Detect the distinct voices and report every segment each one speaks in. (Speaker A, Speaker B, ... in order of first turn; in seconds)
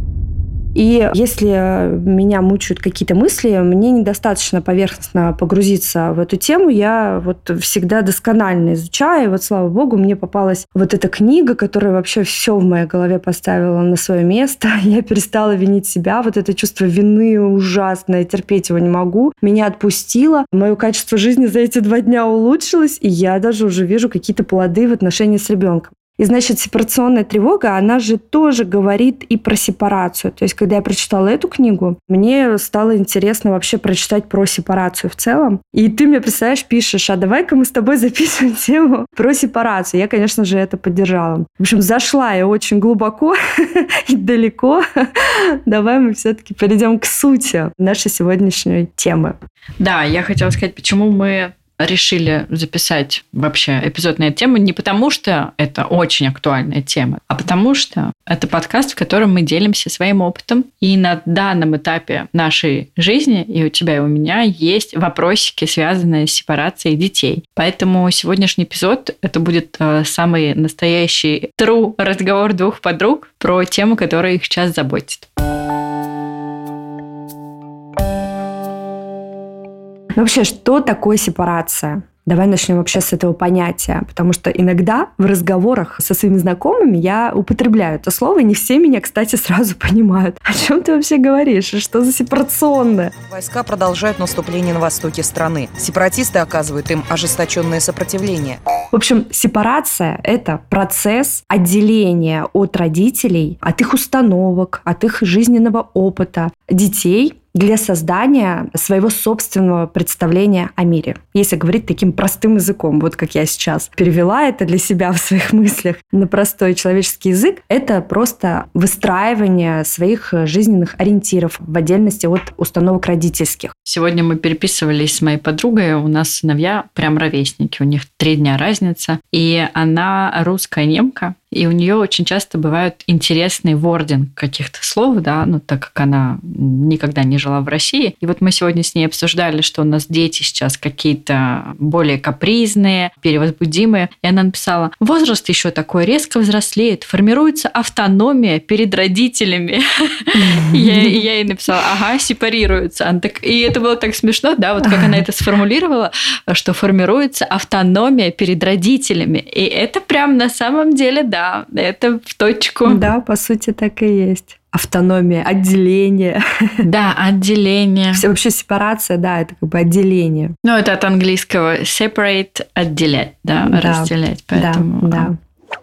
Speaker A: 0.8-49.4, 80.2-93.2, 98.9-123.7, 150.4-151.2, 154.8-155.2, 162.9-166.9, 168.1-170.6, 173.7-175.4
Speaker B: 49.8-75.3, 123.9-163.0, 166.8-168.3, 170.6-175.3
Speaker C: 93.3-98.6